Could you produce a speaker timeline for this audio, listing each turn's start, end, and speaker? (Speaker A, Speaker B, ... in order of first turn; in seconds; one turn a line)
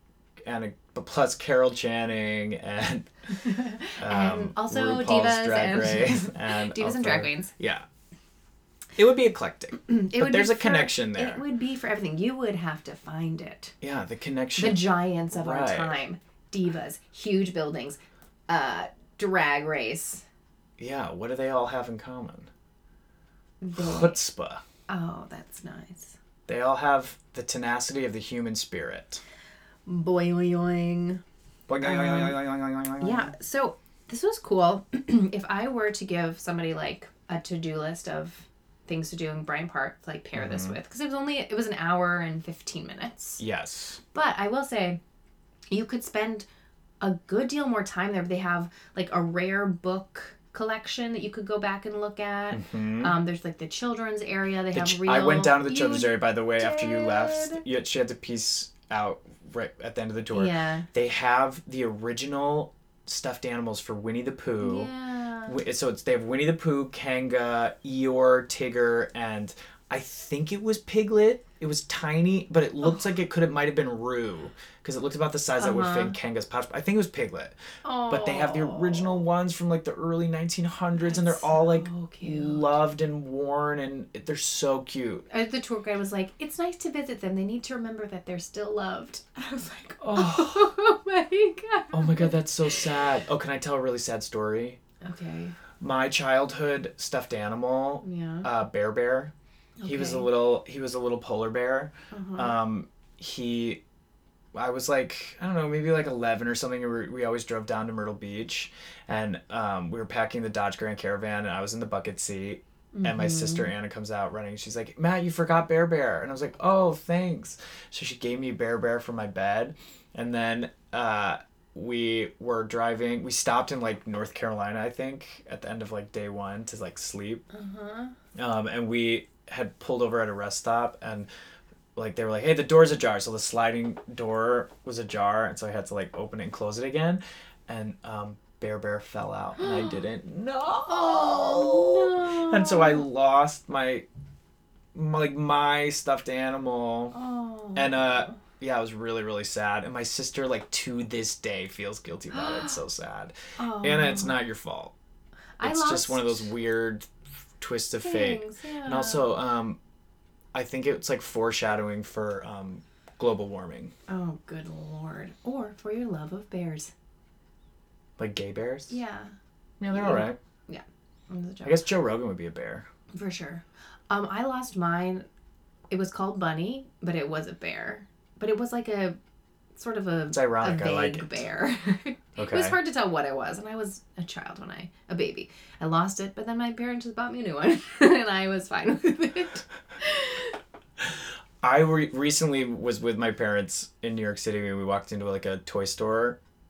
Speaker A: 0.4-3.1
Speaker B: 3.4-7.5
Speaker A: 4.0-7.8
Speaker A: 8.9-11.4
Speaker B: 9.9-13.7
Speaker A: 13.8-16.0
Speaker B: 14.6-20.2
Speaker A: 20.8-22.5
Speaker B: 23.6-24.2
Speaker A: 23.8-24.6
Speaker B: 24.9-26.1
Speaker A: 26.4-29.2
Speaker B: 29.9-31.2
Speaker A: 31.7-33.3
Speaker B: 31.8-32.4
Speaker B: 33.0-43.4
Speaker A: 40.3-40.8
Speaker A: 43.4-44.0
Speaker B: 44.1-45.0
Speaker B: 45.7-46.5
Speaker B: 47.0-57.6
Speaker A: 52.5-53.1
Speaker A: 54.7-64.9
Speaker B: 60.3-60.9
Speaker B: 64.6-65.5
Speaker A: 65.5-77.6
Speaker B: 75.6-76.2
Speaker B: 77.8-79.2
Speaker A: 78.1-85.2
Speaker B: 81.0-82.8
Speaker B: 85.3-92.9
Speaker A: 90.0-90.7
Speaker A: 91.9-94.8
Speaker B: 95.0-95.5
Speaker A: 95.8-99.3
Speaker B: 98.0-98.5
Speaker B: 99.8-100.3
Speaker A: 99.8-103.8
Speaker B: 102.1-102.5
Speaker A: 104.5-127.4
Speaker B: 112.9-113.7
Speaker B: 127.5-128.1
Speaker A: 128.3-131.3
Speaker A: 131.9-144.1
Speaker B: 139.6-139.9
Speaker B: 140.9-143.0
Speaker A: 144.9-147.2
Speaker B: 147.1-148.4
Speaker A: 147.7-154.9
Speaker B: 152.3-152.8
Speaker B: 153.6-154.3
Speaker B: 155.6-156.5
Speaker A: 155.6-157.1
Speaker A: 157.6-159.8
Speaker B: 158.0-159.3
Speaker A: 160.5-163.9
Speaker B: 164.1-166.9
Speaker A: 168.2-168.9
Speaker B: 168.9-169.3
Speaker A: 169.8-170.4
Speaker B: 169.9-171.9
Speaker A: 171.6-172.9
Speaker B: 173.1-175.3
Speaker B: 175.9-179.2
Speaker B: 179.7-190.6
Speaker A: 180.3-181.4
Speaker A: 182.4-182.8
Speaker A: 191.6-196.4